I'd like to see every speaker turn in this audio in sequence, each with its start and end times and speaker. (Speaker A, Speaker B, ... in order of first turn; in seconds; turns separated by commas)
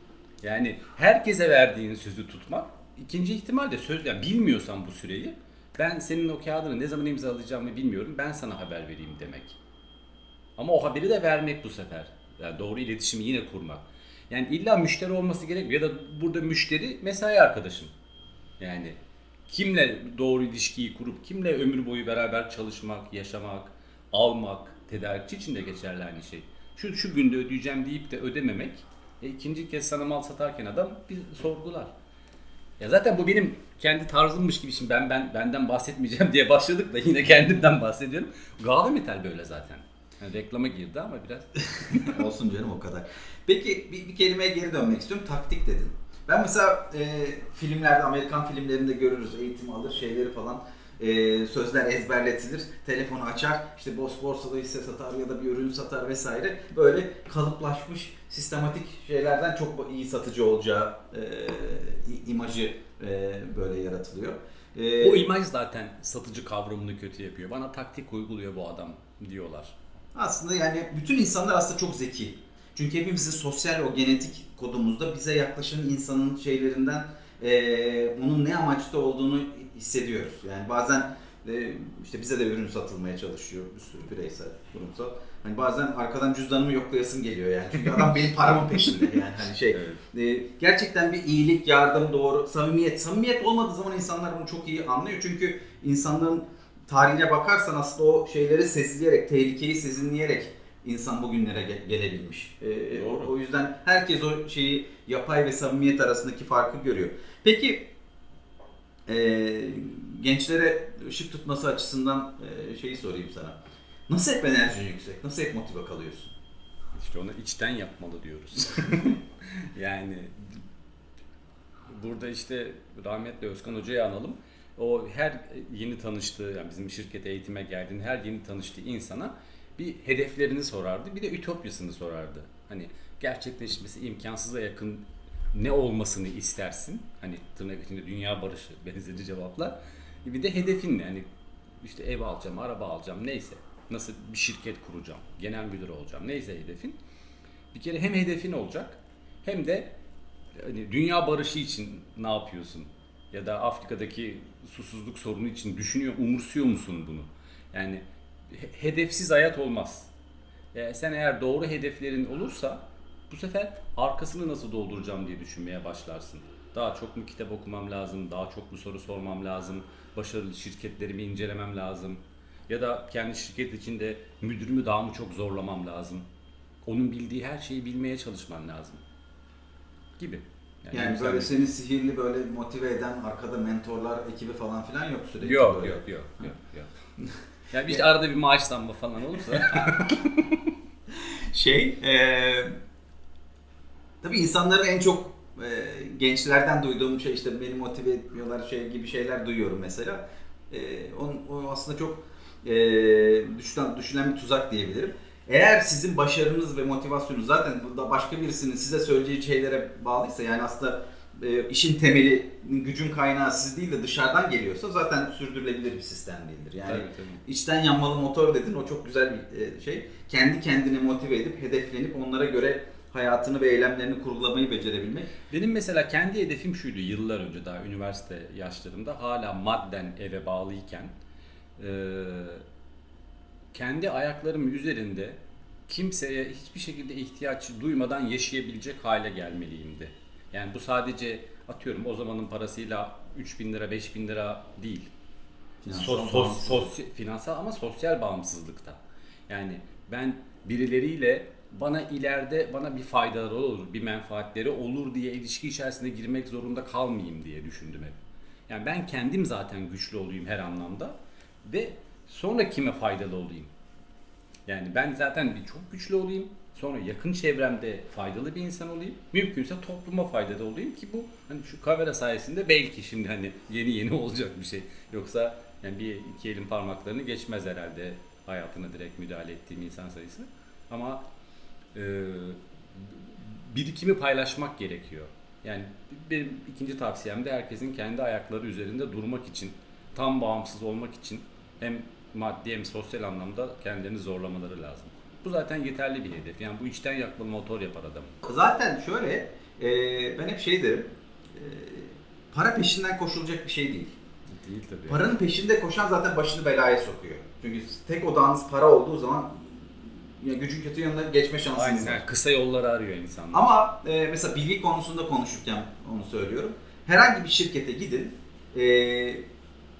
Speaker A: 0.4-9.6, Speaker A: 10.6-17.9, Speaker A: 18.6-19.0, Speaker A: 19.5-31.9, Speaker A: 32.8-42.1, Speaker B: 42.0-65.3, Speaker A: 65.0-69.7, Speaker B: 70.1-107.9, Speaker A: 88.7-89.2, Speaker A: 89.7-90.0, Speaker A: 102.9-103.3, Speaker B: 109.1-113.6, Speaker B: 114.1-116.3, Speaker A: 117.0-120.3, Speaker A: 121.9-141.2, Speaker A: 141.8-147.0, Speaker A: 147.7-149.9, Speaker A: 150.6-160.1, Speaker A: 160.7-176.2, Speaker A: 176.8-179.0, Speaker A: 180.2-181.6, Speaker B: 180.9-186.0, Speaker A: 185.4-186.9, Speaker A: 187.7-190.7, Speaker B: 191.5-192.7, Speaker B: 194.2-225.3, Speaker A: 216.8-217.4, Speaker A: 225.5-231.1, Speaker A: 231.8-232.6, Speaker A: 233.7-245.1, Speaker B: 245.8-246.9, Speaker A: 245.9-258.1, Speaker A: 258.7-263.7, Speaker A: 264.7-281.2, Speaker A: 281.9-298.4, Speaker B: 298.4-304.1, Speaker A: 304.5-305.4, Speaker B: 305.1-312.2, Speaker A: 311.7-313.7, Speaker B: 313.5-319.4